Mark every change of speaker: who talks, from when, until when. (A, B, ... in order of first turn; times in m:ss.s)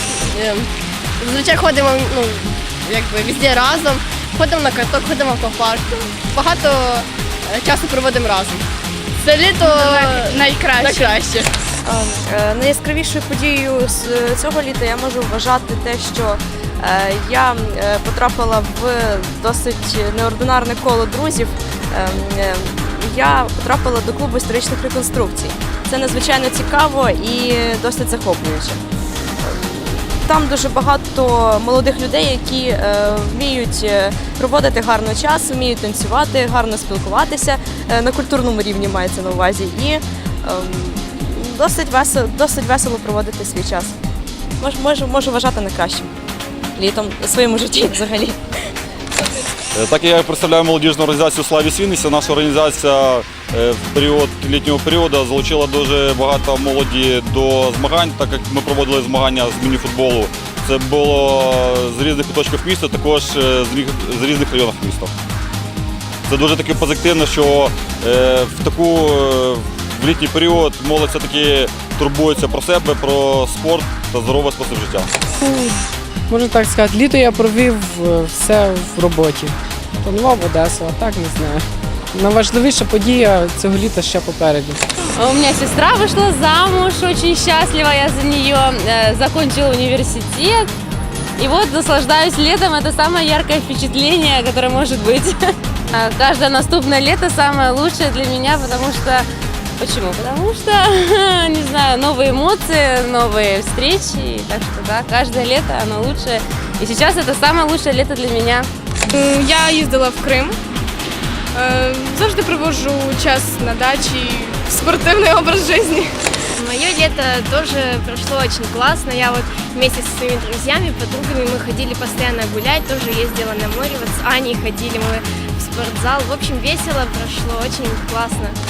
0:00.3-0:00.7 A
0:01.2-0:08.6 A
0:09.2-0:11.5 A
0:09.6-0:11.1 B
0:11.8-0:28.8 C
0:29.4-0:44.0 C
0:44.6-0:46.1 C
0:46.8-0:48.4 C
0:49.8-1:05.1 D
1:06.3-1:15.1 D
1:15.4-1:24.9 E
1:25.1-1:30.7 F
1:31.4-1:39.3 F
1:39.8-1:48.7 F
1:49.1-1:50.6 B
1:51.5-1:56.6 B
1:56.6-2:08.6 G